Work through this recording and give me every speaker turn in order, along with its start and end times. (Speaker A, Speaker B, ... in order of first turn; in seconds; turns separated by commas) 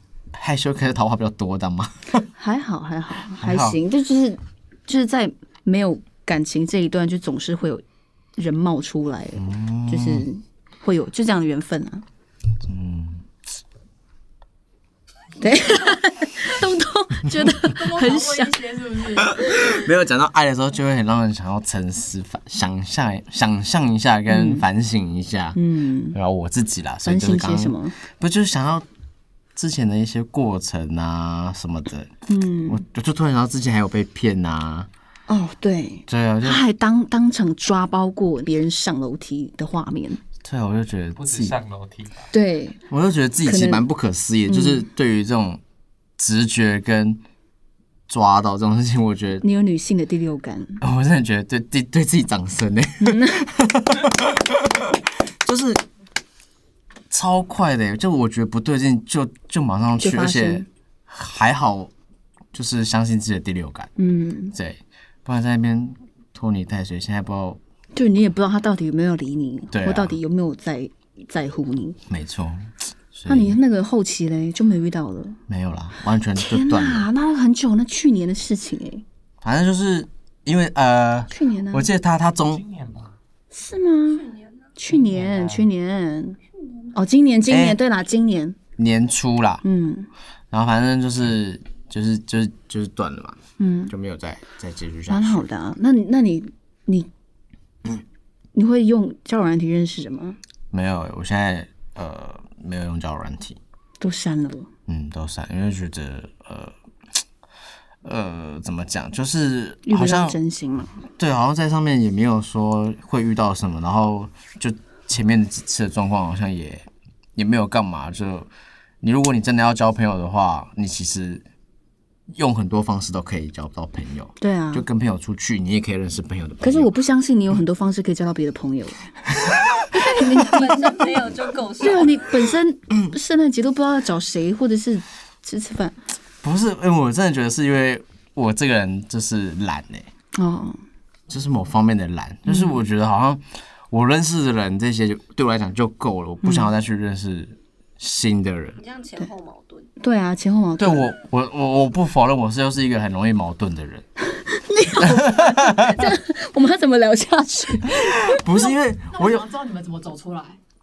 Speaker A: 0.3-2.3, Speaker B: 2.4-7.8, Speaker A: 3.4-3.8, Speaker B: 8.4-12.0, Speaker A: 9.4-10.3, Speaker A: 12.6-13.2, Speaker B: 15.4-18.7, Speaker C: 17.7-19.7, Speaker A: 19.2-25.6, Speaker B: 24.3-24.7, Speaker B: 25.6-26.2, Speaker A: 26.1-28.9, Speaker B: 27.1-28.0, Speaker A: 29.6-32.1, Speaker B: 32.3-32.8, Speaker A: 32.7-34.9, Speaker B: 35.3-40.2, Speaker A: 36.1-36.6, Speaker A: 40.4-41.6, Speaker D: 41.2-42.3, Speaker B: 42.3-42.8, Speaker A: 42.9-45.6, Speaker B: 43.4-43.9, Speaker B: 44.5-44.9, Speaker A: 46.2-47.2, Speaker A: 48.1-49.5, Speaker B: 49.4-50.8, Speaker A: 50.8-55.8, Speaker B: 53.0-53.5, Speaker A: 57.1-61.9, Speaker B: 60.0-60.7, Speaker A: 62.5-63.9, Speaker B: 64.0-64.5, Speaker A: 64.5-67.6, Speaker B: 67.9-72.0, Speaker A: 69.7-70.2, Speaker A: 72.1-73.6, Speaker B: 73.3-75.4, Speaker A: 75.5-77.1, Speaker B: 76.4-79.0, Speaker A: 79.4-82.6, Speaker B: 81.3-81.9, Speaker D: 82.5-83.1, Speaker B: 83.5-86.4, Speaker D: 84.9-85.7, Speaker B: 86.9-88.6, Speaker A: 87.5-87.8, Speaker A: 88.8-89.6, Speaker B: 89.6-90.1, Speaker A: 90.5-93.4, Speaker B: 93.6-93.9, Speaker A: 93.9-95.5, Speaker B: 95.1-97.1, Speaker B: 98.5-100.4, Speaker A: 100.7-103.6, Speaker B: 104.0-104.7, Speaker A: 104.9-106.7, Speaker A: 108.0-110.4, Speaker B: 109.9-111.0, Speaker A: 111.2-118.5, Speaker A: 119.0-121.4, Speaker A: 122.3-126.9, Speaker B: 124.4-124.8, Speaker B: 126.6-129.1, Speaker B: 129.9-131.2, Speaker E: 130.2-132.2, Speaker B: 131.8-136.0, Speaker A: 136.4-140.1, Speaker B: 140.3-140.8, Speaker A: 141.3-148.8, Speaker B: 142.5-142.8, Speaker B: 146.4-146.7, Speaker E: 148.8-149.9, Speaker B: 150.0-151.1, Speaker A: 150.8-154.1, Speaker B: 154.2-158.5, Speaker A: 155.0-156.1, Speaker A: 157.9-159.5, Speaker C: 159.1-160.6